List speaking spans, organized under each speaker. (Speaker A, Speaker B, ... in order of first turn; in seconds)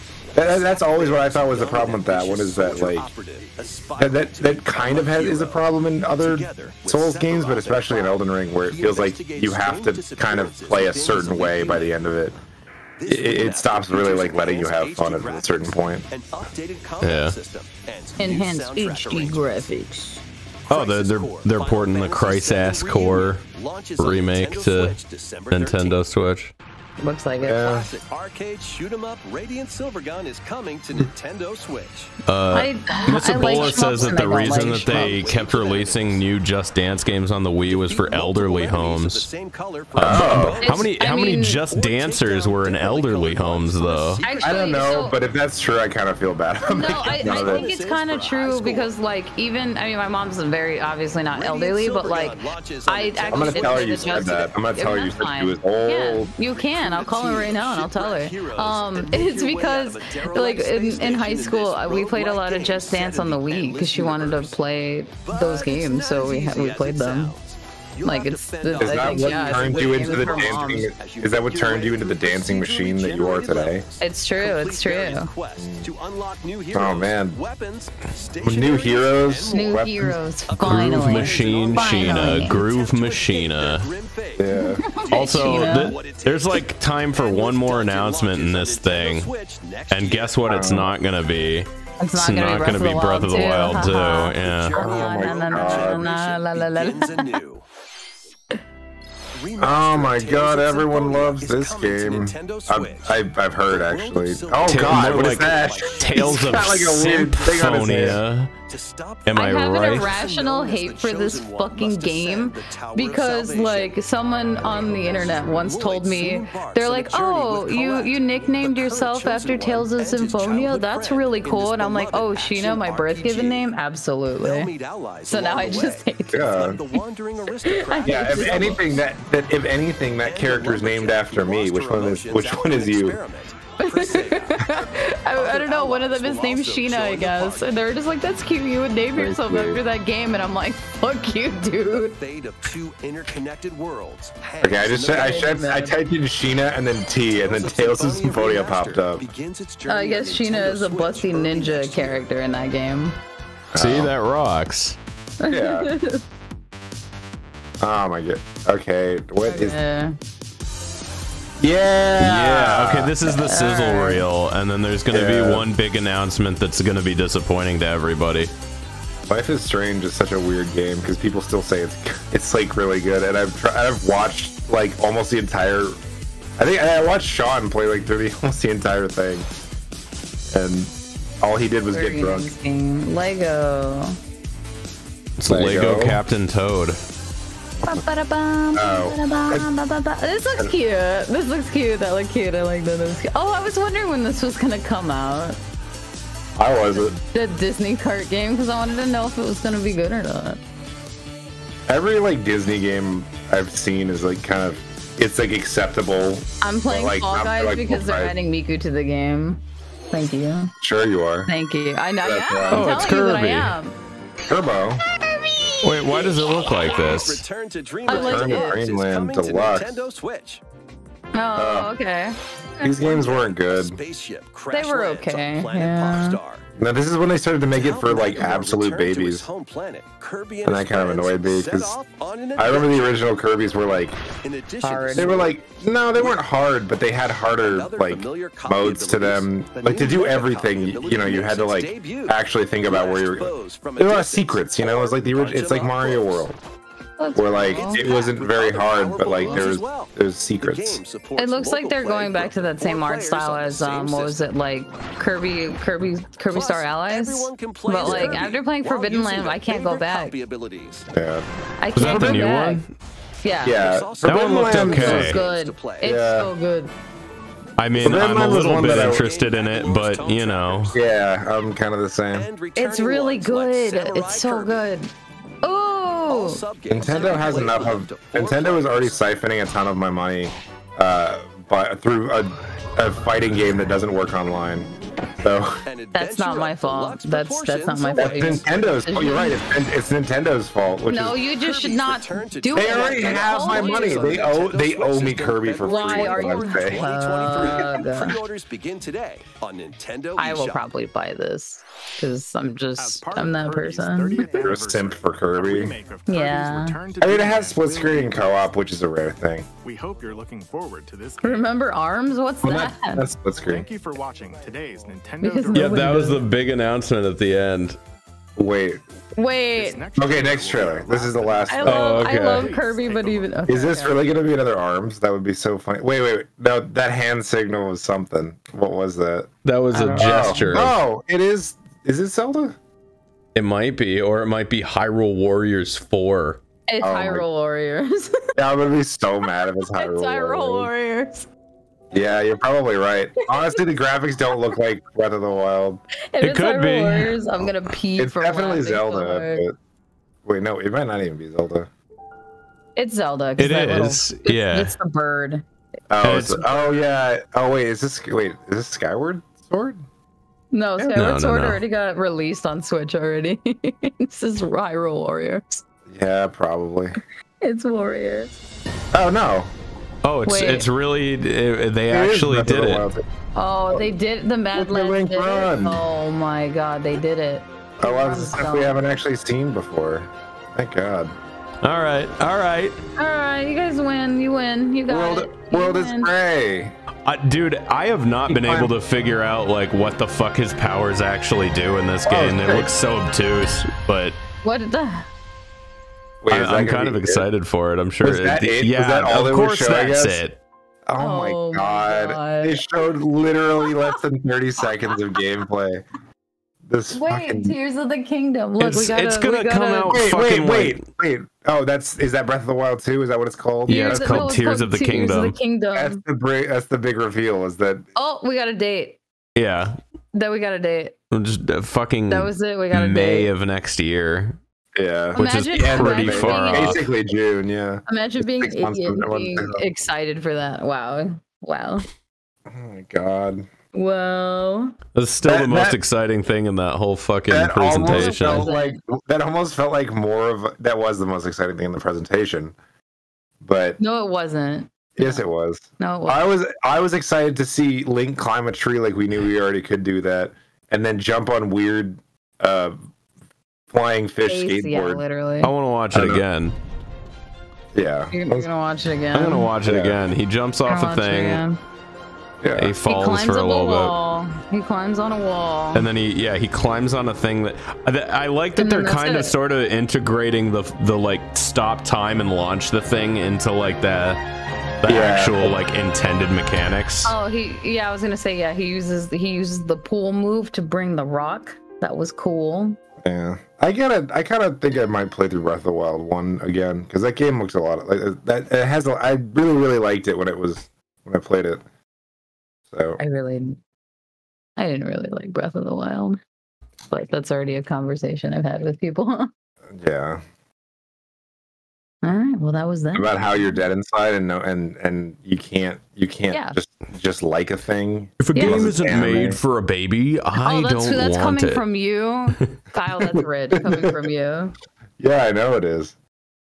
Speaker A: 0.3-12.0, 13.0-19.7, 20.7-26.0, 27.4-32.1, 33.0-36.3, 37.7-41.0, 41.7-45.4, 46.8-48.9, 51.3-54.5, 56.5-64.6, 65.2-90.8, 94.4-97.6, 99.3-107.0, 108.7-114.0, 114.6-123.7, 124.4-129.0, 130.2-137.8, 141.9-145.6, 147.3-152.2, 216.6-220.6, 222.8-226.6, 227.7-233.4, 234.4-235.6, 236.1-236.4, 237.6-246.5, 247.5-254.4, 256.5-261.1, 263.6-266.2, 268.2-271.0, 272.3-274.9, 276.3-279.4, 285.8-289.0, 291.5-300.9
Speaker B: 0.3-3.1, 4.0-12.3, 13.1-16.1, 27.4-27.9, 40.0-40.6, 44.4-47.7, 53.3-56.3, 68.8-73.8, 75.6-75.9, 76.7-77.4, 78.4-80.2, 84.4-84.8, 90.5-90.9, 94.7-96.1, 99.6-108.2, 126.3-126.8, 128.0-133.2, 139.2-139.8, 144.6-149.3, 153.7-154.1, 155.5-155.9, 157.8-159.8, 161.6-163.1, 165.1-165.7, 169.3-176.0, 176.6-179.5, 180.5-182.5, 185.5-186.2, 188.7-189.7, 196.6-197.2, 201.9-208.3, 210.8-211.5, 212.2-212.9, 214.5-215.0, 218.1-219.9, 221.5-221.9, 222.8-224.0, 226.8-229.5, 230.6-232.0, 232.6-234.2, 235.1-246.6, 247.3-251.0, 258.0-258.5, 261.1-261.4, 262.0-262.4, 263.6-265.4, 266.0-266.5, 268.0-269.2, 270.9-272.5, 276.9-284.9, 285.4-285.8, 288.1-291.4, 292.7-298.2, 304.6-305.9, 307.2-309.7, 312.6-313.9, 318.6-319.0, 320.1-322.1, 323.7-329.5, 330.0-332.8, 337.0-337.4, 338.6-340.9, 342.1-346.0, 348.2-349.7, 350.4-351.9, 356.1-360.0, 366.1-367.2, 369.1-369.7, 372.1-373.2, 374.7-376.0, 378.0-381.3, 385.1-386.9, 388.5-388.9, 392.3-392.6, 396.4-397.4, 398.2-400.4, 401.1-406.0, 406.9-407.8, 410.1-414.6, 415.9-418.0, 424.9-429.9, 432.6-433.7, 435.4-436.0, 437.5-442.7, 443.6-444.0, 445.1-453.0, 453.9-455.2, 456.1-456.4, 457.9-458.7, 459.8-460.2, 462.6-462.9, 475.0-475.8, 483.2-491.8, 492.9-493.2, 499.9-500.4, 503.1-509.6, 513.7-514.2, 515.2-516.1
Speaker C: 17.0-17.4, 20.7-23.4, 24.0-25.0, 25.5-26.5, 32.2-39.3, 39.9-44.2, 80.6-83.9, 85.1-89.3, 89.9-94.8, 104.6-108.5, 109.2-110.1, 153.8-155.0, 162.2-168.5, 185.4-187.0, 212.7-213.7, 215.8-217.4, 261.9-262.9, 264.2-265.4, 267.8-270.9, 315.7-318.0, 321.9-322.8, 329.6-330.9, 333.5-336.6, 346.4-347.4, 353.6-354.9, 356.2-356.6, 361.1-361.8, 370.2-373.1, 381.8-383.0, 387.2-394.4, 396.5-400.6, 408.8-411.0, 413.9-415.6, 419.6-420.0, 421.3-424.6, 425.3-427.0, 435.1-438.7, 455.6-456.7, 459.3-461.6, 462.8-464.1, 465.9-474.4, 475.0-477.3, 508.4-511.8
Speaker D: 18.2-20.2, 27.0-27.6, 32.5-35.1, 40.6-41.6, 44.2-45.1, 46.7-67.3, 68.0-70.9, 74.0-75.3, 79.5-82.6, 84.5-85.9, 92.0-97.3, 109.3-124.7, 125.3-126.6, 127.6-129.0, 133.8-142.2, 145.0-146.0, 149.9-153.1, 155.4-156.2, 159.4-160.1, 163.2-164.2, 181.9-184.2, 187.8-195.6, 197.0-200.6, 206.6-210.7, 211.5-213.9, 215.2-216.5, 218.1-218.8, 221.3-223.0, 224.7-226.4, 234.8-235.4, 247.2-248.1, 249.4-249.6, 251.4-260.3, 261.8-262.8, 263.4-263.8, 264.7-266.9, 272.7-275.1, 275.6-276.6, 286.1-289.6, 291.1-294.4, 295.8-298.4, 300.4-304.6, 306.3-307.0, 311.4-313.2, 315.4-316.4, 319.4-320.0, 321.7-324.2, 329.9-330.9, 336.9-338.5, 340.0-341.5, 346.3-349.6, 353.0-355.6, 360.7-365.8, 367.6-368.6, 370.5-370.9, 373.5-379.0, 383.2-386.3, 392.3-392.9, 394.6-395.3, 401.2-403.0, 403.8-404.2, 404.8-405.4, 407.1-410.2, 413.9-416.2, 418.1-419.2, 420.3-421.1, 422.3-423.5, 425.3-427.0, 428.1-432.1, 433.9-434.9, 438.1-439.0, 444.0-445.4, 446.0-446.4, 454.4-455.7, 458.3-459.7, 460.9-461.8, 463.0-466.1, 468.8-469.5, 477.2-483.0, 493.2-493.8, 494.8-496.4, 497.1-499.5, 502.2-503.8, 506.5-506.8, 508.5-508.8, 510.6-514.7
Speaker E: 303.0-308.7, 309.8-311.8, 313.5-316.4, 319.7-324.0